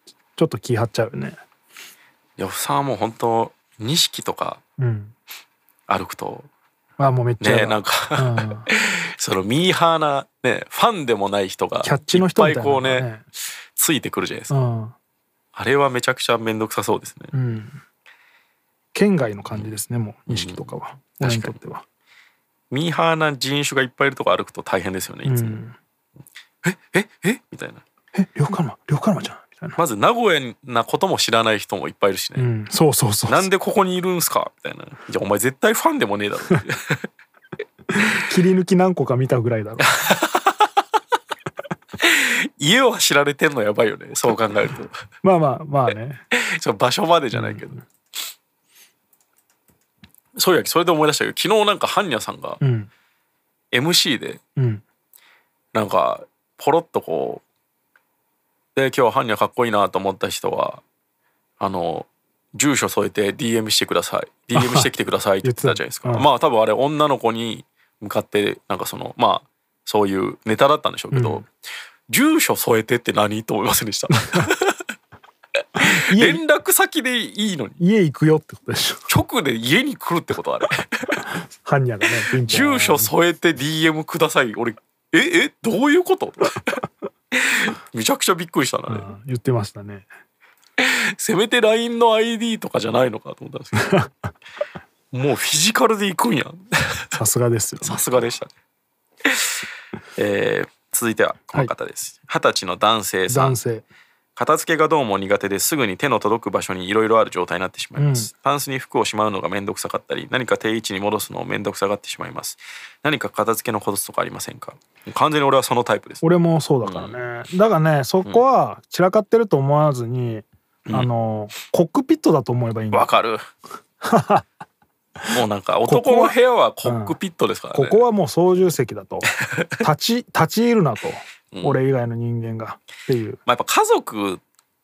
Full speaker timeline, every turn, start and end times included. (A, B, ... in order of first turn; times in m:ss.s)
0:00.4-0:01.4 A
0:02.4-0:04.6 B
0:04.8-0:05.1 A
0:05.9-0:06.5 B
0:07.0-0:08.7 A
0:07.4-0:13.1 B
0:11.8-0:13.2 A
0:13.8-0:14.5 B
0:14.5-0:15.0 A
0:15.6-0:17.3 B
0:17.3-0:17.8 A
0:18.9-0:21.8 A
0:20.3-0:21.6 B
0:22.7-0:25.6 B
0:25.2-0:25.8 A
0:26.6-0:27.8 B
0:28.1-0:29.8 A
0:29.8-0:32.5 B
0:32.4-0:33.5 A
0:33.3-0:37.1 B
0:38.0-0:39.9 A
0:39.8-0:40.7 B
0:42.0-0:45.0 B
0:45.2-0:46.2 A
0:46.3-0:47.8 B
0:47.3-0:47.8 A
0:50.4-0:52.6 B
0:52.6-0:52.9 A
0:53.7-0:54.4 B
0:54.6-0:54.8 A
0:55.7-0:57.4 B
0:58.8-1:00.8 B
1:01.6-1:11.5 B
1:04.6-1:04.9 A
1:05.4-1:06.3 A
1:11.1-1:11.5 A
1:12.1-1:14.8 B
1:14.1-1:14.4 A
1:15.8-1:17.8 B
1:15.8-1:16.4 A
1:17.8-1:19.1 A
1:19.1-1:21.2 B
1:21.3-1:23.1 A
1:22.3-1:26.8 B
1:27.3-1:29.1 B
1:28.9-1:30.1 A
1:30.8-1:33.9 B
1:33.9-1:34.1 A
1:35.1-1:37.2 B
1:37.2-1:38.3 A
1:37.8-1:38.5 B
1:39.2-1:39.6 B
1:40.2-1:43.6 B
1:43.3-1:43.9 A
1:44.4-1:56.2 B
1:48.0-1:48.3 A
1:56.2-2:03.1 A
1:56.8-1:57.2 B
2:02.9-2:03.4 B
2:04.0-2:04.5 A
2:05.2-2:07.2 A
2:05.3-2:08.1 B
2:07.7-2:13.4 A
2:09.4-2:09.8 B
2:11.5-2:11.8 B
2:13.5-2:14.4 B